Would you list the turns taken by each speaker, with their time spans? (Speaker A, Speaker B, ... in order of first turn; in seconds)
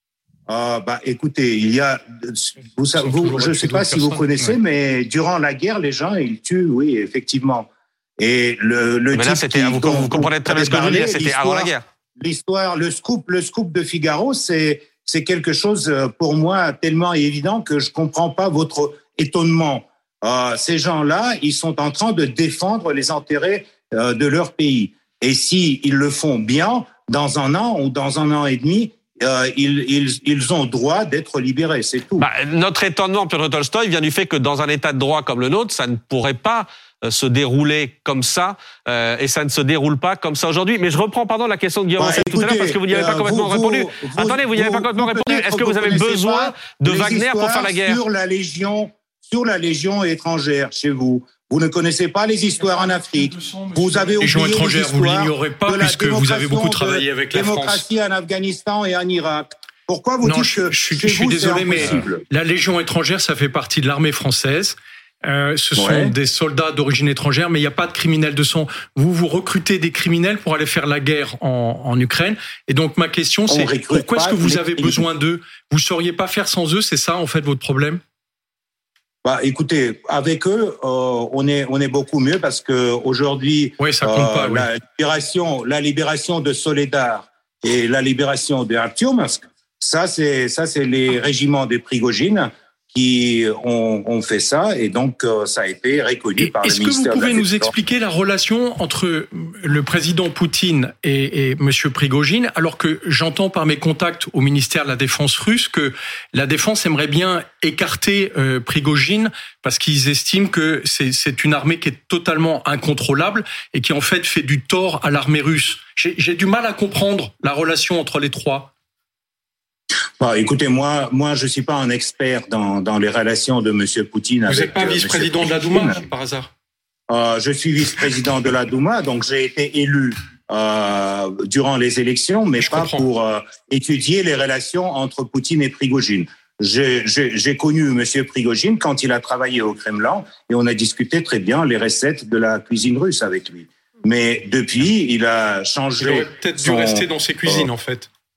Speaker A: 0.5-32.3, 42.0-62.2, 65.8-66.2, 73.5-75.0, 79.2-97.7, 120.2-126.0, 127.1-147.7
Speaker B: 3.0-4.6, 53.2-57.8, 60.2-78.0, 83.8-84.7, 96.4-118.7, 124.5-126.5, 132.6-133.1, 146.0-148.1
Speaker C: 9.1-11.8, 32.2-48.0